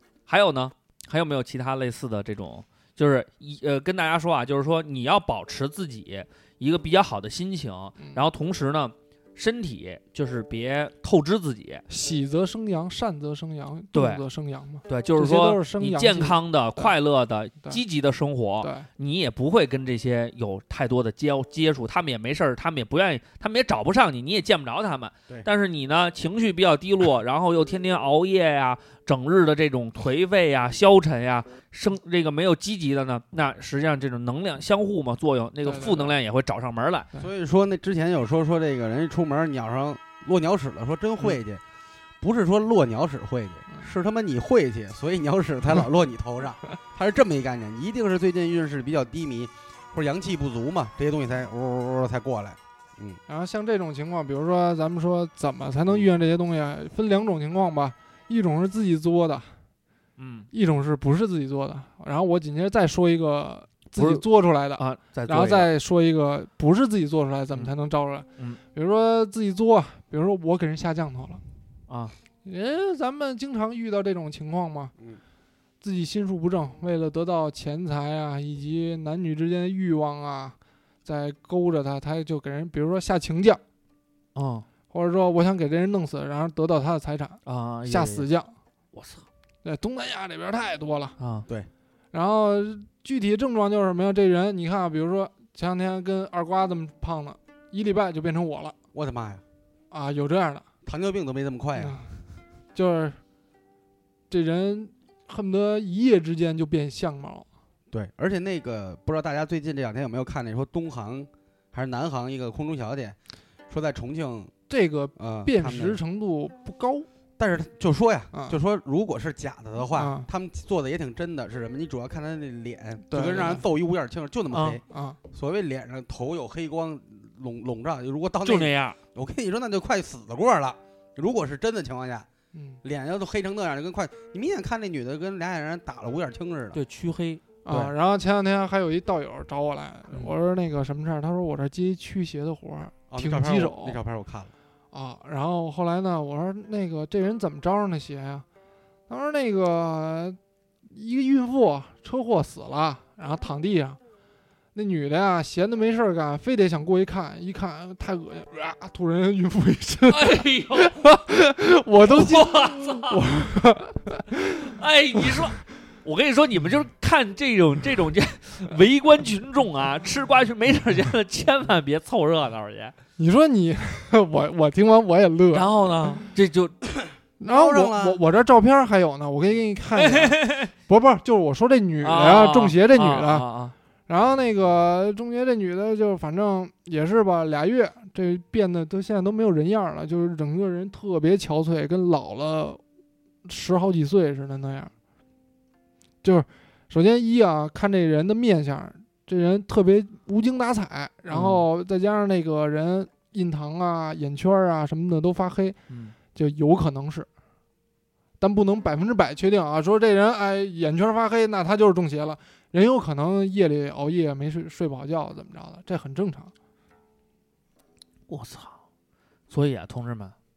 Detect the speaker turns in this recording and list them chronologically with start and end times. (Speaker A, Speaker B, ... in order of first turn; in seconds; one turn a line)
Speaker A: 0.3-11.8
Speaker B: 11.9-16.9
Speaker A: 13.9-14.2
Speaker A: 14.9-37.1
Speaker B: 18.6-18.9
Speaker B: 35.6-36.1
Speaker C: 37.2-41.6
Speaker C: 42.2-53.2
Speaker B: 53.3-59.5
Speaker A: 60.2-60.5
Speaker B: 60.5-71.4
Speaker A: 64.0-64.2
Speaker A: 64.8-65.7
Speaker A: 71.9-72.1
Speaker B: 72.4-74.9
Speaker B: 75.8-83.6
Speaker A: 84.3-84.7
Speaker B: 84.9-88.5
Speaker A: 87.5-88.3
Speaker A: 88.9-89.2
Speaker B: 89.6-91.2
Speaker A: 91.2-91.5
Speaker B: 92.1-98.7
Speaker C: 98.9-99.4
Speaker B: 99.9-100.6
Speaker C: 100.8-102.0
Speaker B: 101.8-102.1
Speaker B: 102.7-103.2
Speaker B: 104.3-107.5
Speaker C: 107.9-113.2
Speaker C: 113.7-114.5
Speaker B: 114.7-117.1
Speaker C: 115.2-116.0
Speaker C: 117.4-132.3
Speaker B: 118.3-118.6
Speaker B: 119.9-120.3
Speaker B: 123.1-123.6
Speaker A: 124.5-124.8
Speaker B: 124.9-125.2
Speaker A: 128.4-129.0
Speaker B: 132.5-132.8
Speaker C: 132.8-136.8
Speaker A: 136.7-137.4
Speaker B: 137.6-144.0
Speaker C: 137.7-137.9
Speaker C: 143.1-144.5
Speaker B: 144.9-148.4
Speaker B: 149.1-154.0
Speaker B: 154.7-165.4
Speaker A: 160.1-160.9
Speaker A: 162.0-163.2
Speaker A: 164.5-172.9
Speaker B: 173.2-175.7
Speaker A: 175.5-176.7
Speaker C: 177.0-178.2
Speaker B: 177.4-183.4
Speaker A: 179.9-180.7
Speaker A: 182.0-183.7
Speaker B: 184.1-192.8
Speaker B: 193.4-194.9
Speaker B: 196.2-205.8
Speaker A: 201.3-201.7
Speaker A: 205.9-206.1
Speaker B: 206.3-207.3
Speaker B: 208.4-216.5
Speaker A: 218.3-218.8
Speaker A: 219.5-220.3